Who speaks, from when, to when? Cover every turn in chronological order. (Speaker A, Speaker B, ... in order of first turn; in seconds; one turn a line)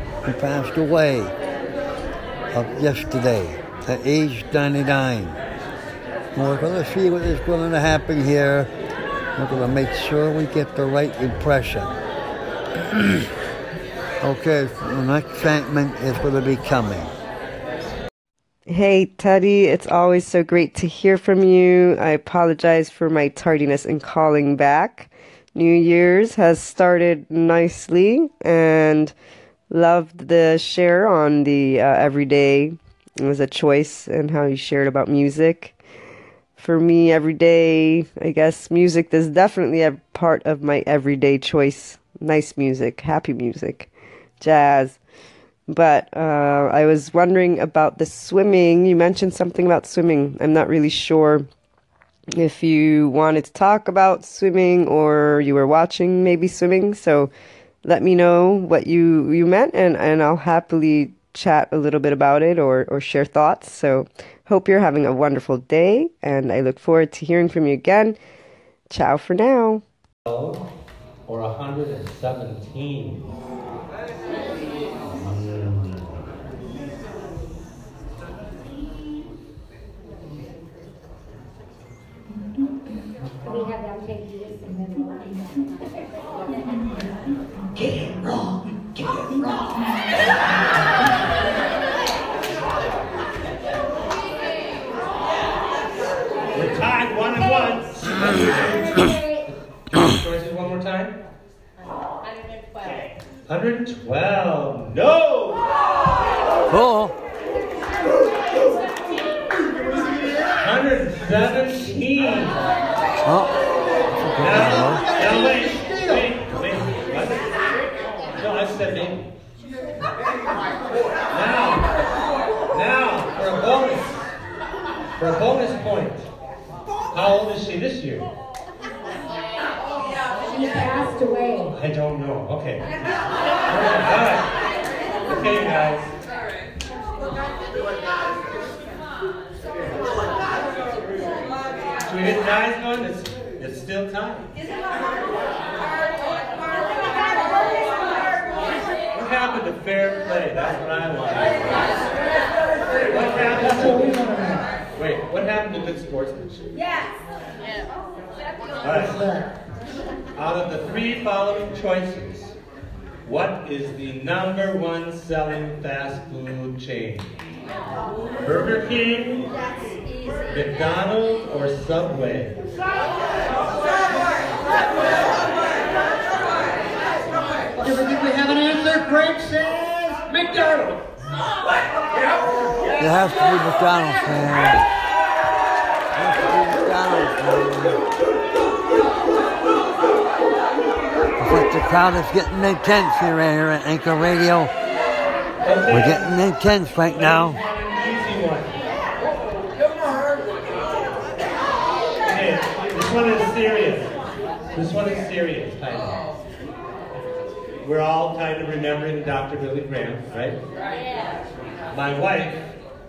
Speaker A: 0.2-1.3
Speaker A: 2.5-5.4
Speaker A: 6.3-8.7
Speaker A: 9.3-11.9
Speaker A: 12.9-13.2
Speaker A: 14.2-17.1
Speaker B: 18.7-29.1
Speaker B: 29.7-35.8
Speaker B: 36.6-45.0
Speaker B: 45.7-51.5
Speaker B: 52.3-57.3
Speaker B: 57.8-68.2
Speaker B: 68.9-69.8
Speaker C: 70.2-70.7
Speaker C: 71.2-73.3
Speaker C: 75.1-76.0
Speaker D: 83.4-85.8
Speaker D: 86.7-87.0
Speaker D: 89.1-89.9
Speaker C: 96.5-99.1
Speaker D: 98.9-99.4
Speaker C: 99.9-101.2
Speaker C: 103.5-105.7
Speaker A: 106.7-107.1
Speaker C: 110.5-112.7
Speaker A: 113.2-113.5
Speaker A: 114.1-115.1
Speaker C: 114.4-117.6
Speaker E: 115.2-116.2
Speaker C: 118.3-119.3
Speaker C: 121.3-121.9
Speaker C: 122.7-124.3
Speaker C: 125.2-126.3
Speaker C: 127.1-128.3
Speaker D: 130.4-131.8
Speaker C: 131.7-133.0
Speaker C: 133.6-134.6
Speaker C: 135.2-136.1
Speaker C: 142.0-144.5
Speaker C: 149.1-152.1
Speaker C: 153.0-154.2
Speaker E: 153.9-154.6
Speaker C: 154.9-157.0
Speaker C: 158.8-159.3
Speaker E: 159.2-159.4
Speaker C: 160.3-162.6
Speaker C: 163.2-167.4
Speaker C: 168.4-169.6
Speaker C: 170.5-172.7
Speaker E: 177.7-181.1
Speaker A: 183.0-184.8
Speaker A: 186.1-188.0
Speaker A: 191.4-194.7
Speaker C: 195.6-196.3
Speaker A: 195.9-197.6
Speaker C: 197.1-198.8
Speaker C: 202.2-204.2
Speaker C: 204.7-206.3
Speaker C: 207.8-210.6
Speaker C: 211.9-212.7